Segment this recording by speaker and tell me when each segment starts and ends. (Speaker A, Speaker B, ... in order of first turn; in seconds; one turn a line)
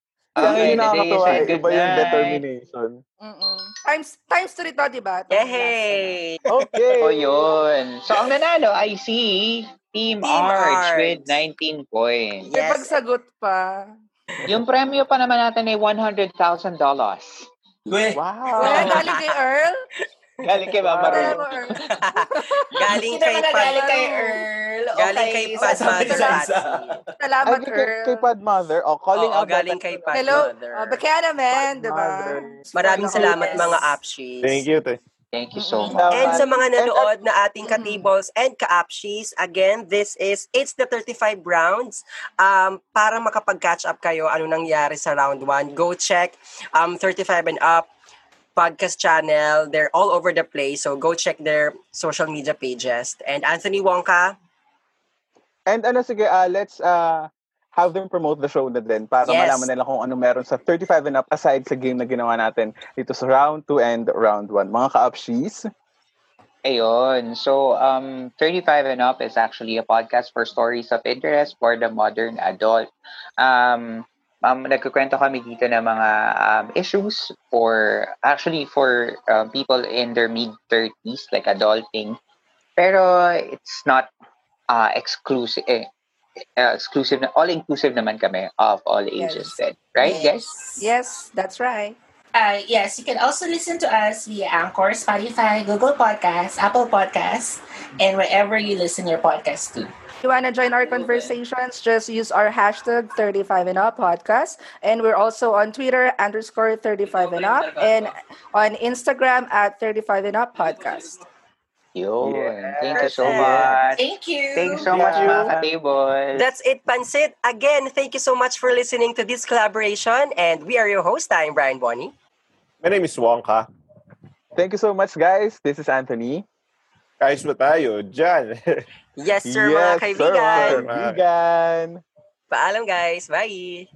Speaker A: 0.3-2.4
Speaker B: 0.4-3.0
Speaker C: 3.2-6.2
Speaker D: 5.3-6.4
Speaker B: 6.5-7.5
Speaker A: 7.0-12.5
Speaker D: 10.2-11.4
Speaker D: 12.4-13.0
Speaker C: 12.5-13.9
Speaker A: 14.5-17.5
Speaker E: 17.9-18.2
Speaker B: 18.1-19.0
Speaker D: 18.6-19.4
Speaker C: 18.6-19.9
Speaker A: 20.4-21.8
Speaker B: 20.8-21.4
Speaker C: 21.1-22.7
Speaker D: 21.9-24.0
Speaker E: 22.9-27.1
Speaker C: 23.9-24.4
Speaker D: 24.9-27.0
Speaker C: 25.6-26.4
Speaker C: 27.2-28.3
Speaker B: 27.4-30.5
Speaker D: 29.1-31.0
Speaker C: 30.1-33.9
Speaker B: 31.5-32.7
Speaker D: 32.8-34.7
Speaker E: 33.0-33.8
Speaker F: 34.4-35.0
Speaker A: 35.3-36.1
Speaker C: 35.6-36.1
Speaker B: 35.9-37.1
Speaker E: 36.1-36.4
Speaker D: 36.1-47.9
Speaker C: 37.6-38.1
Speaker D: 48.6-54.4
Speaker B: 55.7-65.7
Speaker D: 59.2-59.7
Speaker A: 66.7-72.9
Speaker A: 73.4-82.2
Speaker A: 82.8-84.1
Speaker A: 84.7-85.9
Speaker A: 86.6-90.5
Speaker C: 89.2-89.6
Speaker E: 90.0-90.9
Speaker C: 90.8-92.0
Speaker E: 92.3-99.9
Speaker C: 100.2-111.2
Speaker A: 112.0-116.5
Speaker B: 112.2-113.9
Speaker D: 112.9-113.7
Speaker E: 114.0-115.2
Speaker B: 114.9-115.7
Speaker D: 116.4-122.1
Speaker F: 122.8-123.7
Speaker B: 124.5-126.5
Speaker F: 127.2-128.6
Speaker D: 129.2-130.8
Speaker B: 129.5-132.0
Speaker F: 130.6-131.2
Speaker D: 132.5-133.9